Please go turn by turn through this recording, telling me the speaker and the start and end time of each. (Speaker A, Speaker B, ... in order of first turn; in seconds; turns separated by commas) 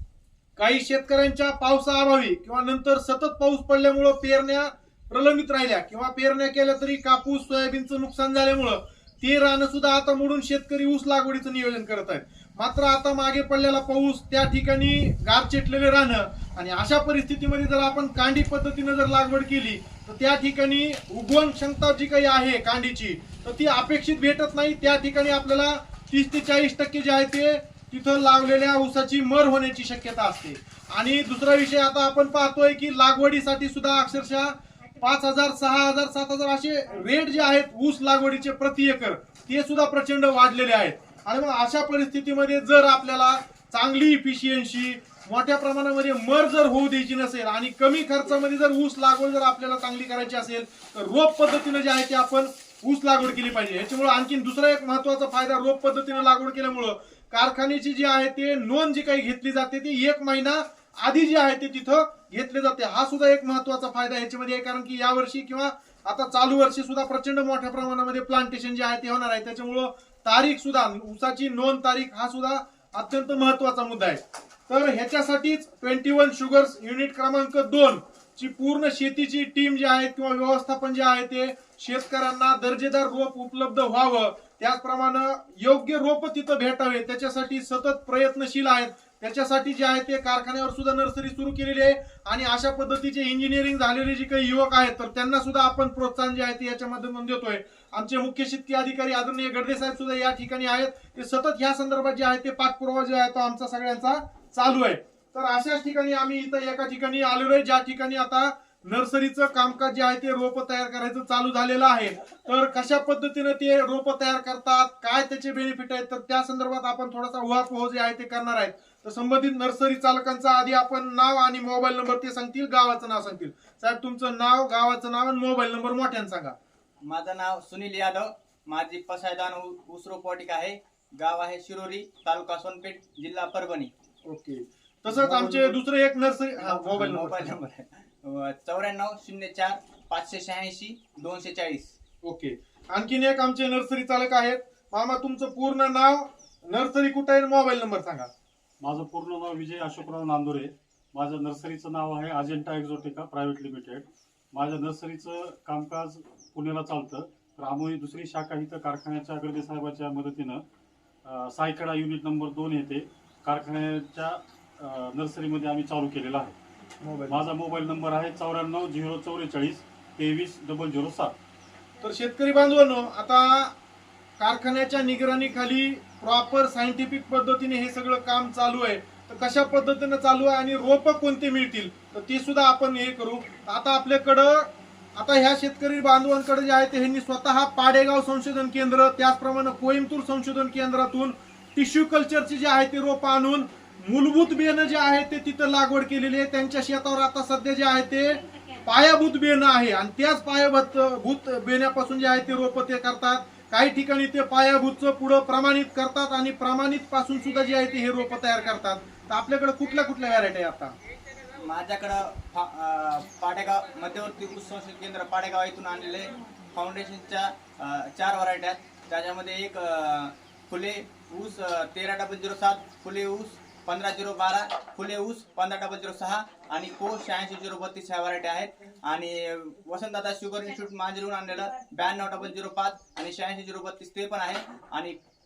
Speaker A: 0.6-126.6, Speaker B: 127.0-133.9, Speaker A: 134.3-137.6, Speaker B: 135.1-135.8, Speaker B: 136.6-141.9, Speaker A: 142.2-148.3, Speaker C: 148.8-160.6, Speaker C: 161.2-166.6, Speaker A: 167.0-167.5, Speaker C: 167.3-171.3, Speaker A: 172.0-173.8, Speaker A: 174.4-210.9, Speaker B: 211.6-235.2